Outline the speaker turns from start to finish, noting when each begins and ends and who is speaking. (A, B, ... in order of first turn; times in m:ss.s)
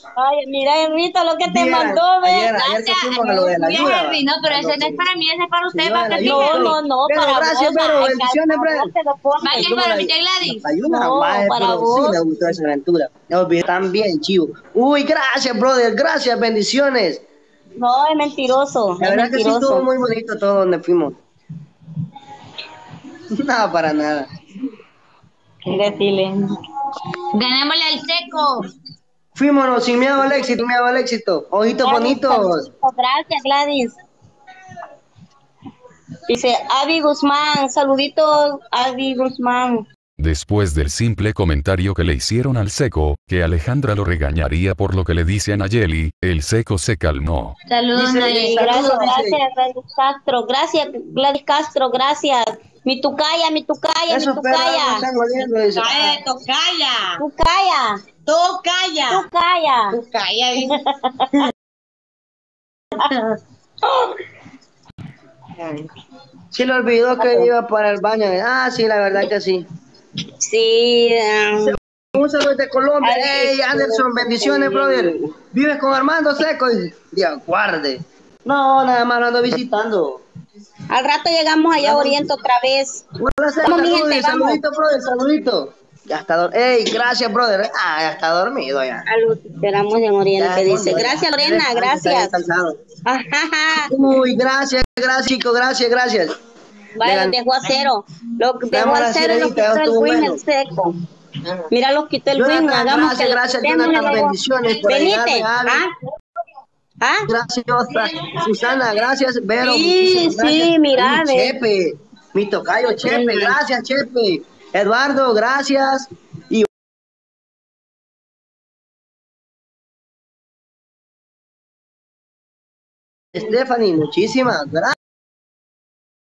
0:00.2-0:02.5 A
0:01.4-0:05.0 B
0:02.4-0:06.8 C
0:05.7-0:08.9 B
0:06.2-0:09.8 A
0:09.4-0:10.7 C
0:09.5-0:17.2 B
0:10.9-0:12.2 A
0:17.8-0:19.9 A
0:19.0-0:21.2 B
0:23.3-0:24.3 B
0:25.7-0:26.5 A
0:27.3-0:28.7 C
0:29.3-0:32.6 B
0:31.8-0:34.0 A
0:36.3-0:39.8 A
0:40.2-0:47.6 D
0:47.7-0:49.1 C
0:47.9-0:49.4 B
0:48.3-0:55.0 A
0:54.1-0:56.2 B
0:55.7-0:57.2 C
0:57.2-0:58.0 A
0:58.2-0:59.2 C
0:59.1-1:00.0 A
0:59.9-1:00.7 C
1:03.0-1:03.3 C
1:06.5-1:09.6 B
1:07.2-1:07.5 A
1:10.4-1:11.7 A
1:11.6-1:20.2 B
1:13.0-1:15.3 A
1:20.9-1:23.0 A
1:21.8-1:22.2 B
1:23.2-1:29.0 B
1:23.6-1:24.6 A
1:29.0-1:32.3 A
1:30.4-1:32.8 B
1:33.0-1:33.9 A
1:33.9-1:36.3 B
1:37.0-1:40.9 A
1:37.0-1:37.3 B
1:38.7-1:40.4 B
1:41.7-1:45.9 A
1:42.3-1:45.8 B
1:47.0-1:47.3 A
1:47.3-1:56.7 B
1:49.6-1:51.6 A
1:53.0-1:53.6 A
2:03.3-2:05.0 B